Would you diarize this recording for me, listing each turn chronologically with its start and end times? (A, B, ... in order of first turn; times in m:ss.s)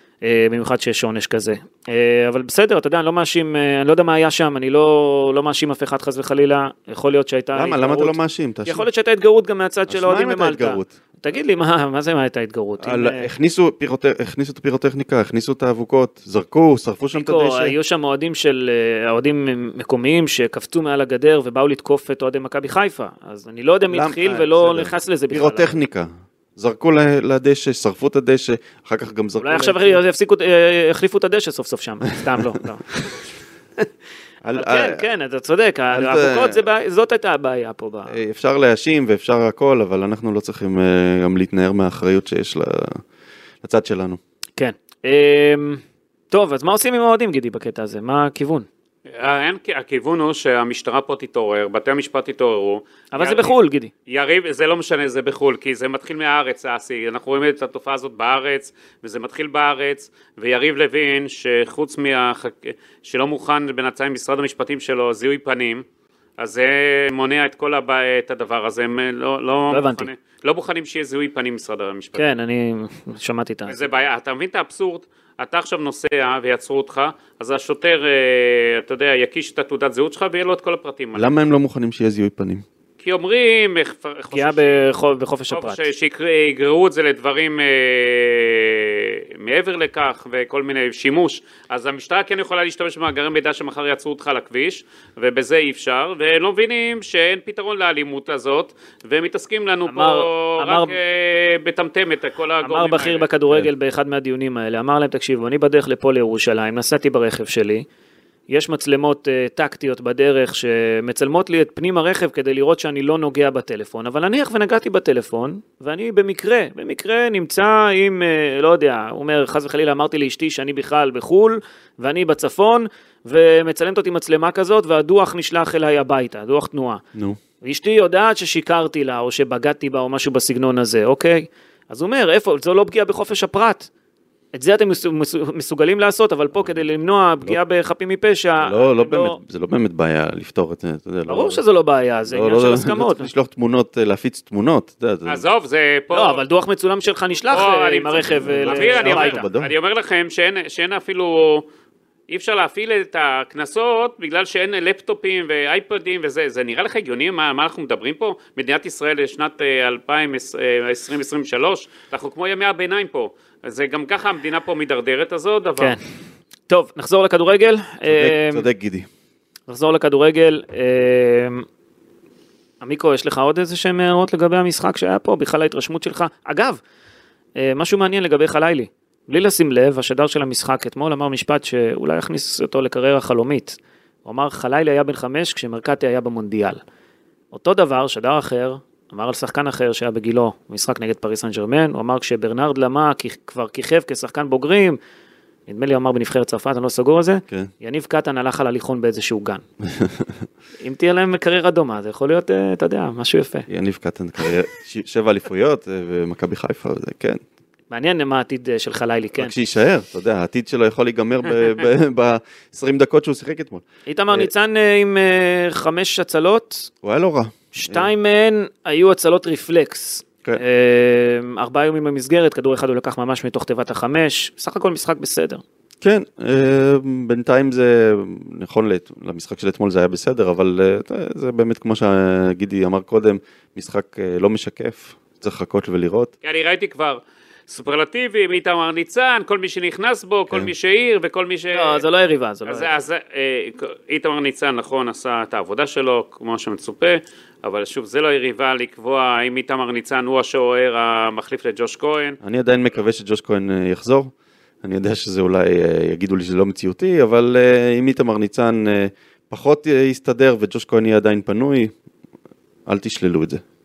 0:00.2-0:13.3 A
0:07.5-0:08.8 B
0:09.9-0:11.0 B
0:12.8-0:17.7 B
0:17.1-0:25.7 A
0:23.9-0:30.0 B
0:29.4-0:32.8 A
0:34.4-0:35.0 B
0:34.5-0:38.2 A
0:35.9-0:36.6 B
0:38.1-0:43.0 B
0:43.6-0:44.2 B
0:44.6-0:48.7 A
0:49.1-0:53.6 C
0:53.1-0:53.9 A
0:54.1-1:05.8 C
1:06.4-1:12.2 C
1:09.7-1:10.1 A
1:12.2-1:13.8 A
1:13.7-1:21.3 C
1:21.1-1:22.6 B
1:23.0-1:24.7 C
1:24.3-1:25.8 A
1:25.5-1:43.3 C
1:39.9-1:41.0 A
1:42.6-1:47.8 A
1:48.5-2:07.0 A
2:07.6-2:13.9 A
2:14.5-2:19.4 A
2:18.6-2:21.6 B
2:21.3-2:23.3 A
2:22.3-2:25.4 B
2:25.2-2:26.4 C
2:26.1-2:29.4 A
2:27.5-2:31.6 C
2:28.4-2:29.7 B
2:32.3-2:45.9 C
2:46.7-2:48.7 A
2:48.0-2:49.1 B
2:49.7-2:51.6 A
2:52.8-2:56.8 A
2:57.6-3:06.8 A
3:07.5-3:15.0 A
3:15.7-3:19.6 A
3:19.8-3:20.4 B
3:20.8-3:23.7 A
3:23.7-3:27.4 B
3:27.9-3:29.6 A
3:29.4-3:34.5 B
3:34.1-3:36.9 A
3:37.0-3:38.1 B
3:37.7-3:45.6 A
3:46.0-3:56.3 B
3:56.4-4:02.0 C
4:01.7-4:02.9 A
4:02.7-4:12.4 C
4:12.4-4:14.3 B
4:14.8-4:21.9 B
4:22.8-4:23.6 B